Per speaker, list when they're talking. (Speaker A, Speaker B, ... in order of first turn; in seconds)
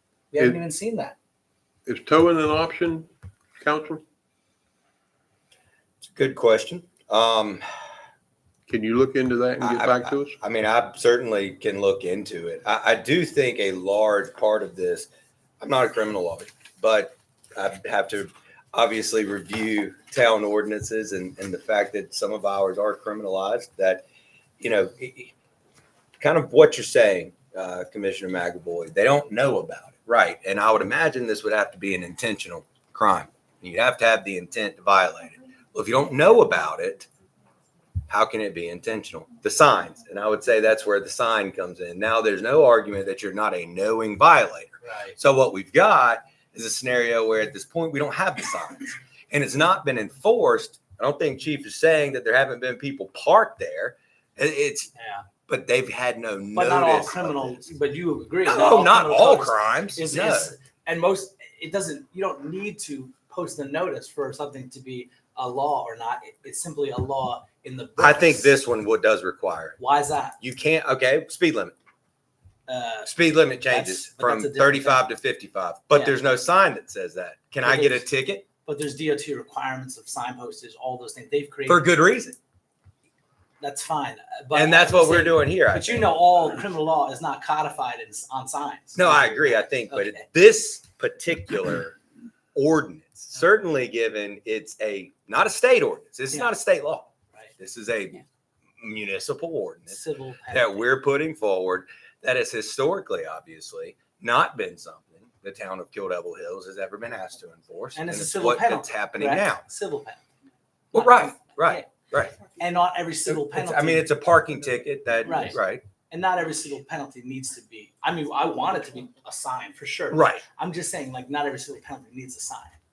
Speaker A: 0.3-1.1, 44.8-45.2, 55.0-55.3, 56.5-68.5, 69.8-70.4, 72.7-73.1, 73.7-75.1, 77.6-78.1, 78.6-81.9, 83.6-90.2, 99.9-100.9, 108.0-110.2, 110.9-111.9, 112.4-114.1, 115.2-115.6, 116.1-122.8
Speaker B: 1.9-4.0, 8.7-10.4
Speaker C: 6.0-7.6, 9.6-15.1, 15.6-24.0, 24.6-25.3, 26.2-37.1, 38.1-54.9, 55.5-57.7, 58.5-60.5, 68.0-69.8, 70.4-71.8, 73.0-78.5, 81.7-82.4, 84.5-86.6, 89.0-92.0, 92.5-98.2, 98.8-100.0, 100.5-109.6, 110.9-112.4, 113.3-115.8, 120.1-120.4